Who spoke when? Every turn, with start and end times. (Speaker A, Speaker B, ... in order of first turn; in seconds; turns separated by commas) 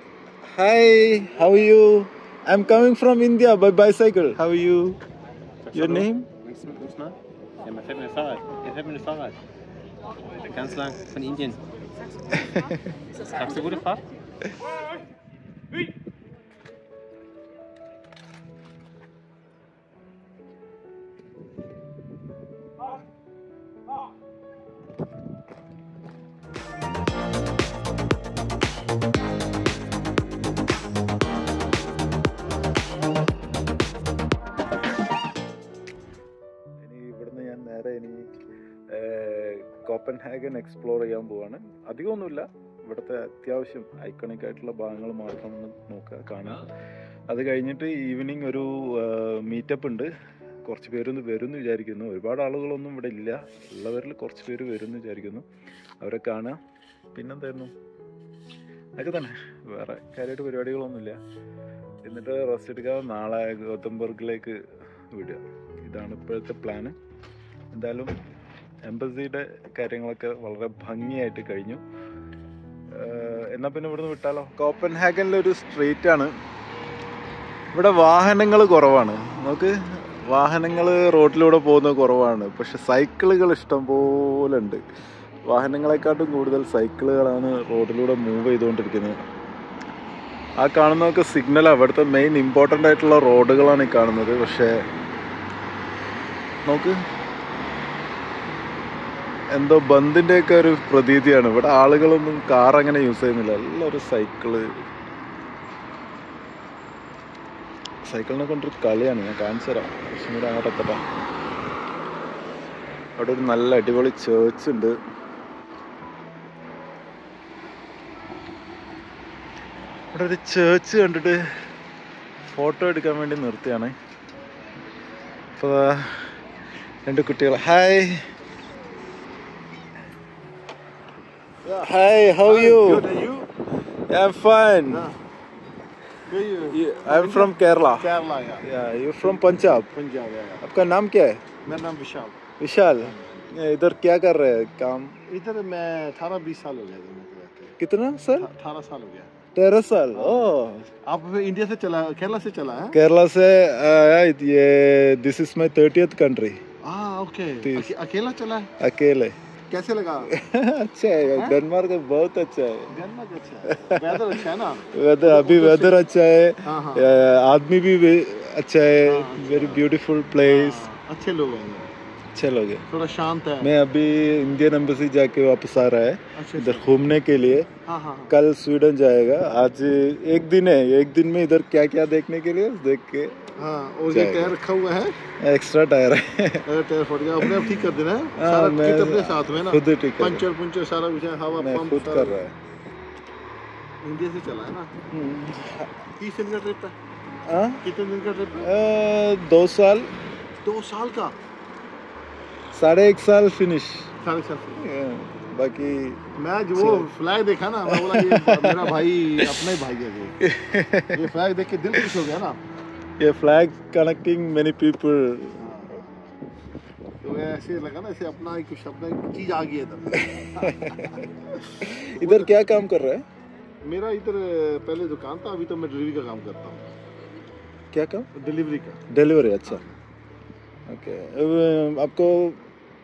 Speaker A: 0.5-5.0, Speaker B: 5.6-9.4, Speaker A: 5.7-6.3, Speaker B: 10.4-11.6, Speaker A: 12.3-12.7, Speaker B: 13.3-14.0, Speaker A: 36.8-38.3, Speaker A: 38.9-46.7, Speaker A: 47.3-50.1, Speaker A: 50.6-55.5, Speaker A: 56.0-56.6, Speaker A: 57.1-57.7, Speaker A: 59.0-61.2, Speaker A: 62.0-67.0, Speaker A: 67.7-68.1, Speaker A: 68.8-71.8, Speaker A: 72.9-76.3, Speaker A: 77.7-84.8, Speaker A: 85.5-89.2, Speaker A: 90.6-94.8, Speaker A: 96.6-97.0, Speaker A: 99.5-104.8, Speaker A: 108.0-111.0, Speaker A: 113.2-115.0, Speaker A: 120.1-121.4, Speaker A: 122.4-123.9, Speaker A: 125.5-126.4, Speaker A: 127.1-128.2, Speaker C: 131.6-131.9, Speaker A: 131.8-133.1, Speaker C: 132.4-133.5, Speaker A: 134.1-135.1, Speaker C: 134.9-135.2, Speaker C: 136.3-138.7, Speaker A: 136.7-139.8, Speaker C: 139.2-140.7, Speaker A: 140.6-141.4, Speaker C: 141.7-142.4, Speaker A: 142.6-145.2, Speaker C: 143.0-143.6, Speaker C: 145.3-147.8, Speaker A: 147.8-148.5, Speaker C: 148.4-149.3, Speaker A: 149.5-150.9, Speaker C: 150.2-150.5, Speaker C: 151.1-153.0, Speaker A: 152.9-156.6, Speaker C: 156.8-158.7, Speaker A: 157.6-157.9, Speaker A: 158.8-159.3, Speaker C: 159.7-160.3, Speaker A: 160.3-163.0, Speaker C: 162.9-166.0, Speaker A: 163.7-164.4, Speaker A: 164.9-170.9, Speaker C: 166.7-167.1, Speaker C: 169.0-169.8, Speaker C: 170.4-171.9, Speaker A: 172.3-172.8, Speaker C: 172.9-173.7, Speaker A: 173.6-177.7, Speaker C: 176.4-176.9, Speaker C: 177.8-178.3, Speaker A: 178.3-183.5, Speaker C: 183.6-185.1, Speaker A: 184.1-184.5, Speaker A: 185.4-186.6, Speaker C: 186.7-192.4, Speaker A: 187.4-190.5, Speaker A: 191.6-192.5, Speaker C: 194.0-194.9, Speaker A: 195.1-195.9, Speaker C: 196.2-197.0, Speaker A: 197.5-197.8, Speaker C: 197.8-198.7, Speaker A: 198.6-200.1, Speaker C: 200.6-201.3, Speaker A: 202.7-204.1, Speaker C: 204.2-204.8, Speaker A: 204.8-206.2, Speaker C: 206.4-210.4, Speaker A: 206.8-207.1, Speaker A: 207.9-209.7, Speaker A: 210.4-211.2, Speaker C: 211.1-212.6, Speaker A: 213.2-215.6, Speaker C: 215.6-216.1, Speaker C: 217.2-222.6, Speaker A: 220.2-221.2, Speaker A: 221.8-223.2, Speaker C: 223.8-226.8, Speaker A: 227.9-228.3, Speaker C: 228.3-229.0, Speaker A: 229.1-229.8, Speaker C: 229.7-229.9, Speaker A: 230.9-232.7